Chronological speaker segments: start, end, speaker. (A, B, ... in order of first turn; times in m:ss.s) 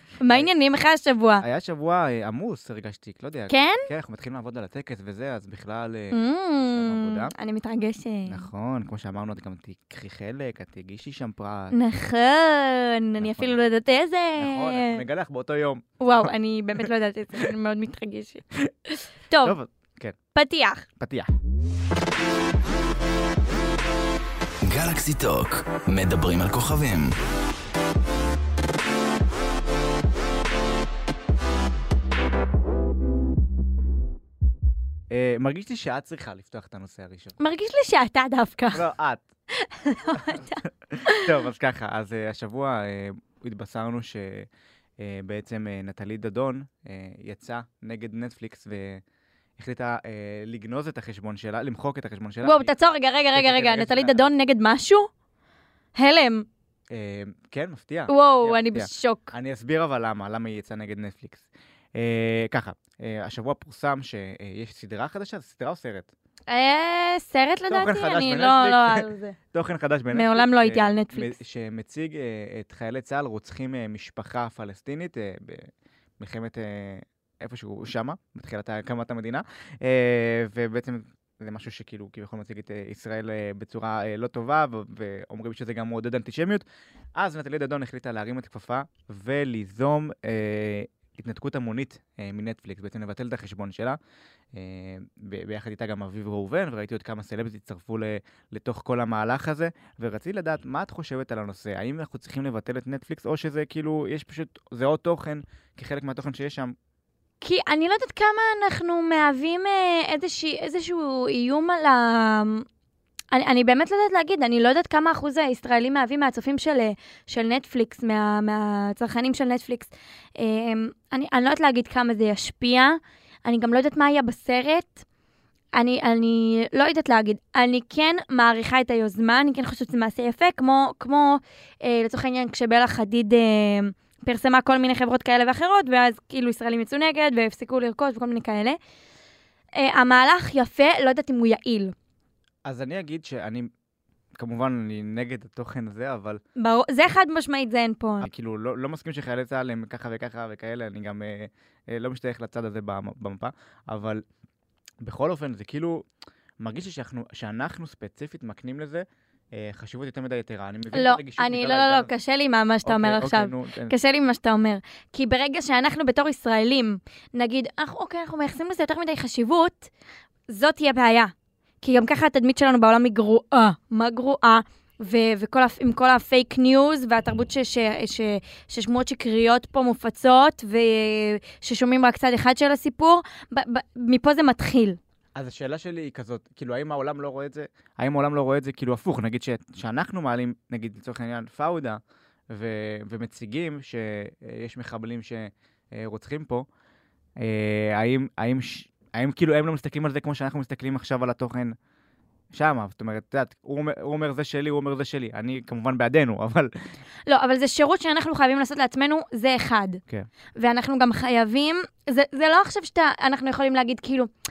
0:00.2-0:01.4 A
0:01.4-0:07.3 B
0:03.5-0:03.9 A
0:06.1-0:08.5 A
0:08.3-0:11.8 B
0:11.7-0:15.0 A
0:13.2-0:13.5 B
0:14.4-0:16.9 B
0:16.0-0:19.6 A
0:19.4-0:20.2 B
0:20.3-0:20.8 A
0:21.0-0:21.3 B
0:24.6-0:27.1 C
0:35.1-0:37.4 B
0:37.4-0:38.9 A
0:38.7-0:39.2 B
0:39.5-0:41.3 A
0:40.0-0:49.0 B
0:49.6-0:52.7 B
0:52.4-0:55.1 A
0:53.3-0:54.2 B
0:55.9-0:56.4 A
0:56.9-1:06.1 B
0:58.1-0:59.3 A
1:06.5-1:09.4 A
1:07.7-1:26.6 B
1:10.1-1:11.4 A
1:27.2-1:34.0 B
1:34.5-1:46.8 B
1:47.4-1:52.6 A
1:53.3-2:05.0 A
2:05.7-2:18.8 A
2:19.8-2:21.9 A
2:22.6-2:23.7 B
2:24.4-2:26.4 B
2:26.6-2:28.3 A
2:28.2-2:34.2 B
2:35.0-2:36.0 B
2:36.6-2:42.1 B
2:40.9-2:49.9 A
2:42.8-2:43.9 B
2:50.5-3:05.0 A
3:05.4-3:12.0 B
3:12.5-3:16.6 B
3:17.4-3:21.8 B
3:22.5-3:26.7 B
3:27.3-3:30.0 A
3:30.6-3:34.3 A